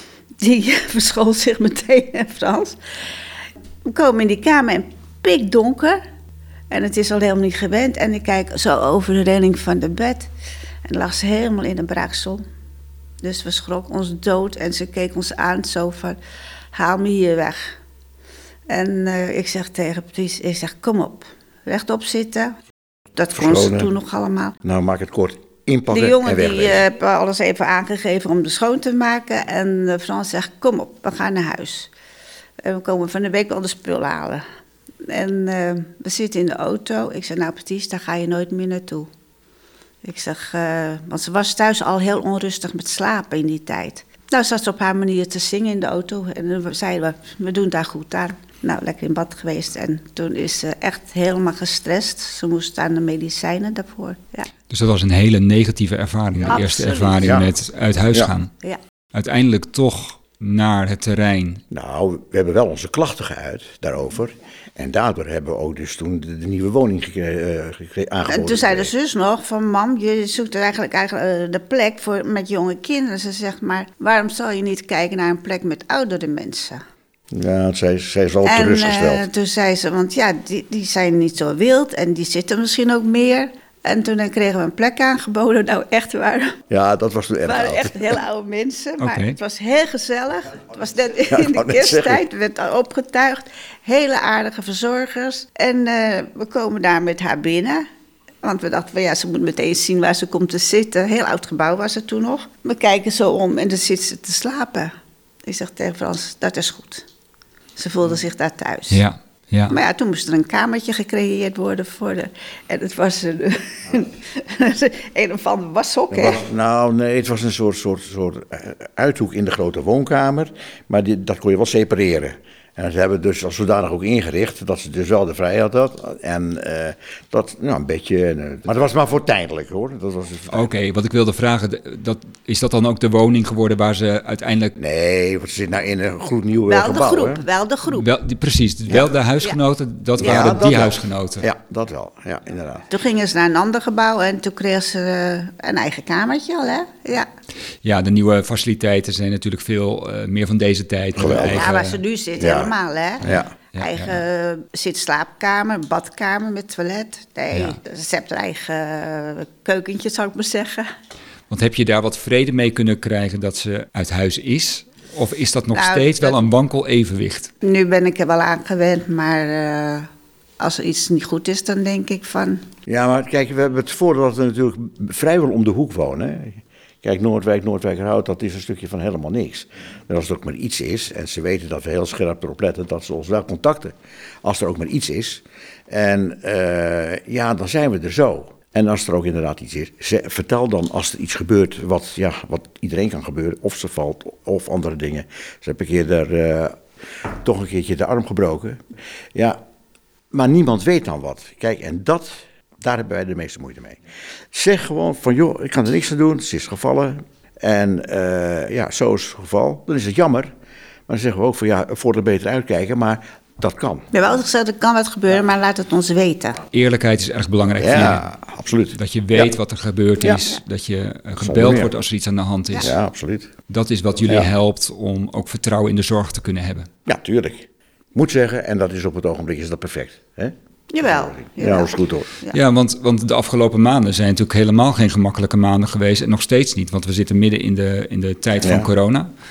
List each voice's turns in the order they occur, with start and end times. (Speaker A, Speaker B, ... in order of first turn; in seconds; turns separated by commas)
Speaker A: 0.4-2.8, Speaker A: 3.9-6.0, Speaker A: 6.7-10.3, Speaker A: 10.9-12.4, Speaker A: 13.2-16.2, Speaker A: 16.7-17.7, Speaker A: 18.7-22.6, Speaker A: 23.2-24.6, Speaker B: 23.3-23.9, Speaker B: 24.6-26.9, Speaker A: 25.9-31.9, Speaker A: 32.6-34.4, Speaker A: 35.0-39.1, Speaker A: 40.0-54.5, Speaker C: 54.7-58.5, Speaker A: 56.5-57.4, Speaker B: 57.2-57.5, Speaker C: 59.1-61.6, Speaker B: 61.7-68.9, Speaker A: 68.3-76.8, Speaker B: 77.3-79.2, Speaker A: 78.5-86.6, Speaker B: 86.7-88.2, Speaker A: 87.5-97.9, Speaker C: 89.0-89.4, Speaker B: 91.3-92.2, Speaker A: 98.4-104.9, Speaker A: 105.5-107.1, Speaker A: 107.8-109.0, Speaker C: 108.9-109.8, Speaker A: 109.7-116.4, Speaker B: 116.1-130.7, Speaker C: 130.5-134.7, Speaker B: 134.8-137.4, Speaker A: 136.7-138.1, Speaker C: 137.9-141.4, Speaker B: 138.9-139.2, Speaker B: 140.2-142.9, Speaker A: 142.9-147.3, Speaker C: 147.8-152.0, Speaker B: 151.2-151.7, Speaker A: 151.3-160.9, Speaker B: 152.4-153.5, Speaker C: 153.2-154.2, Speaker C: 161.5-167.5, Speaker A: 165.7-166.4, Speaker A: 167.6-170.1, Speaker A: 170.6-172.7, Speaker B: 172.9-198.8, Speaker B: 199.3-199.6, Speaker B: 200.3-204.0, Speaker B: 204.5-210.5, Speaker B: 211.1-214.1, Speaker A: 214.1-216.6, Speaker C: 216.7-218.3, Speaker B: 217.8-219.5, Speaker C: 218.9-223.0, Speaker B: 221.4-221.9, Speaker B: 222.8-223.5, Speaker C: 223.7-226.9, Speaker B: 227.1-232.3, Speaker A: 230.9-232.6, Speaker C: 232.5-239.3, Speaker B: 238.6-238.9